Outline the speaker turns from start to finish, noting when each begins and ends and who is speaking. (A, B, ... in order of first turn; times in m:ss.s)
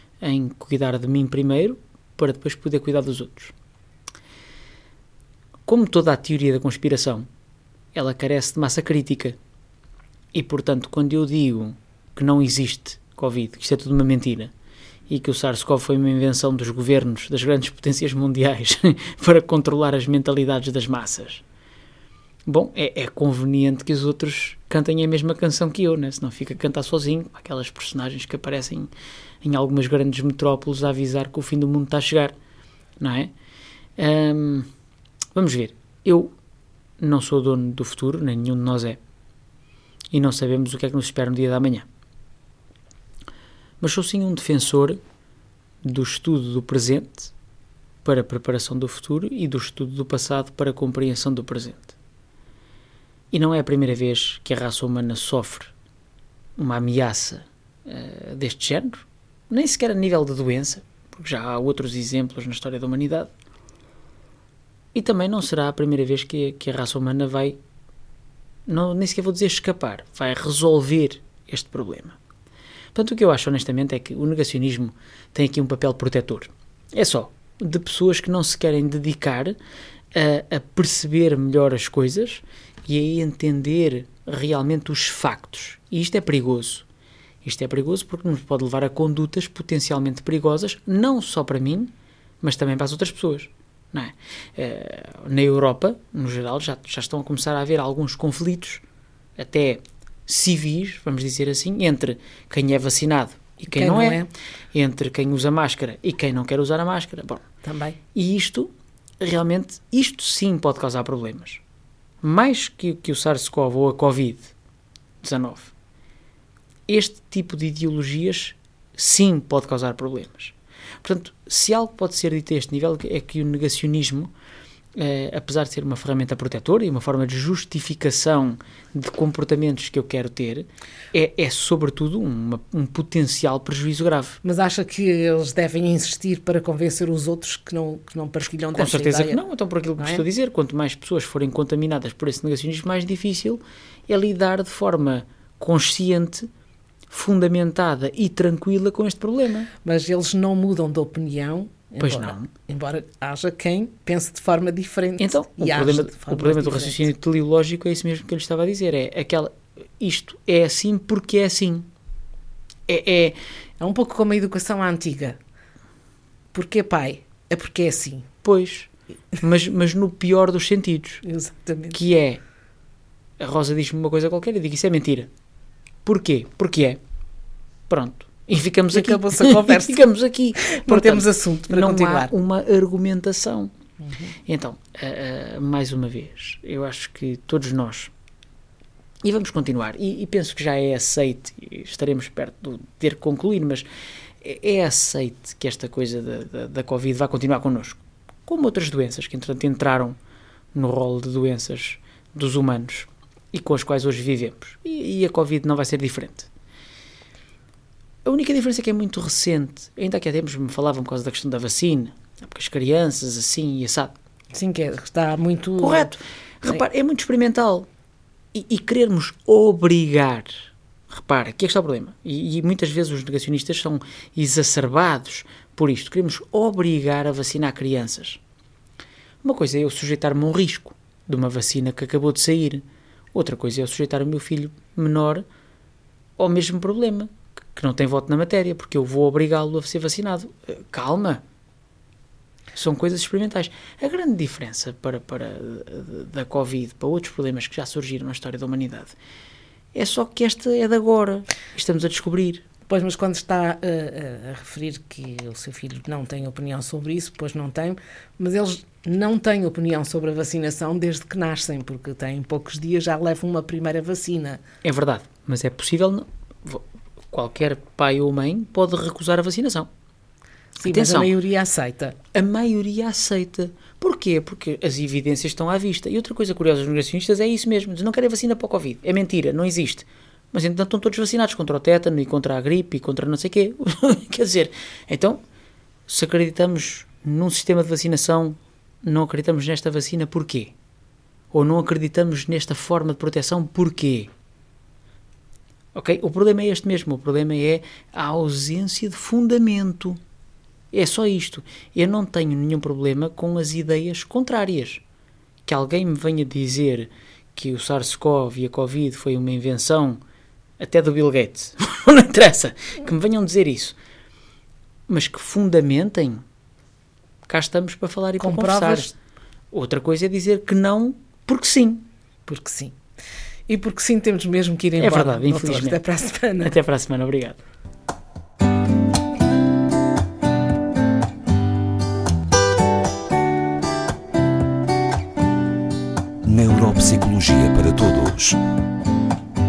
0:00.2-0:03.5 A
0:05.7-0:07.3 A
0:07.9-0:09.4 A
0:10.3-0:14.5 A
0:15.1-0:21.4 A
0:22.5-0:28.9 A
0:29.4-0:32.4 A
0:33.0-0:33.3 A
0:34.0-0:34.7 A
0:35.4-0:36.3 A
0:37.0-0:39.0 A
0:40.1-0:41.9 A
0:43.8-0:45.0 A
0:45.8-0:47.3 A
0:48.0-0:51.9 A
0:53.3-0:55.7 A
0:56.6-1:03.3 A
1:04.9-1:07.6 A
1:08.7-1:12.2 A
1:12.9-1:19.6 A
1:20.1-1:26.8 A
1:27.4-1:38.8 A
1:39.4-1:47.4 A
1:43.7-1:44.3 B
1:47.6-1:48.0 B
1:48.2-1:51.6 A
1:52.2-1:54.5 A
1:55.2-1:55.7 A
1:56.9-2:04.3 A
2:05.0-2:14.4 A
2:14.4-2:19.4 B
2:18.7-2:26.5 A
2:20.0-2:20.2 B
2:27.1-2:29.7 A
2:29.8-2:37.1 B
2:32.0-2:32.5 A
2:35.2-2:41.9 A
2:42.9-2:43.4 A
2:43.8-2:45.4 B
2:46.5-2:48.3 B
2:48.4-2:51.2 A
2:51.2-2:52.0 B
2:51.9-2:52.4 A
2:53.4-2:55.3 A
2:56.0-2:57.0 A
2:57.9-3:03.7 A
2:58.9-3:00.0 B
3:00.6-3:02.3 B
3:04.0-3:04.3 B
3:04.5-3:08.1 A
3:09.2-3:13.9 A
3:14.4-3:20.2 A
3:20.7-3:26.5 A
3:28.2-3:34.2 A
3:34.5-3:36.1 B
3:35.8-3:37.9 A
3:38.5-3:40.5 A
3:41.1-3:48.4 A
3:49.4-3:55.4 A
3:56.4-4:01.4 A
4:02.8-4:09.1 A
4:09.9-4:12.6 A
4:12.9-4:24.6 B
4:24.8-4:29.9 A
4:30.8-4:32.2 B
4:30.8-4:31.3 A
4:32.3-4:45.4 A
4:46.1-4:50.7 A
4:51.5-4:54.3 A
4:55.9-5:00.2 A
5:00.9-5:05.0 A
5:05.7-5:10.2 A
5:10.8-5:14.0 A
5:15.1-5:16.4 A
5:17.5-5:19.2 A
5:18.4-5:19.1 B
5:19.7-5:22.0 A
5:22.5-5:22.9 B
5:23.7-5:26.8 B
5:25.0-5:26.0 A
5:26.6-5:27.6 A
5:36.4-5:38.6 C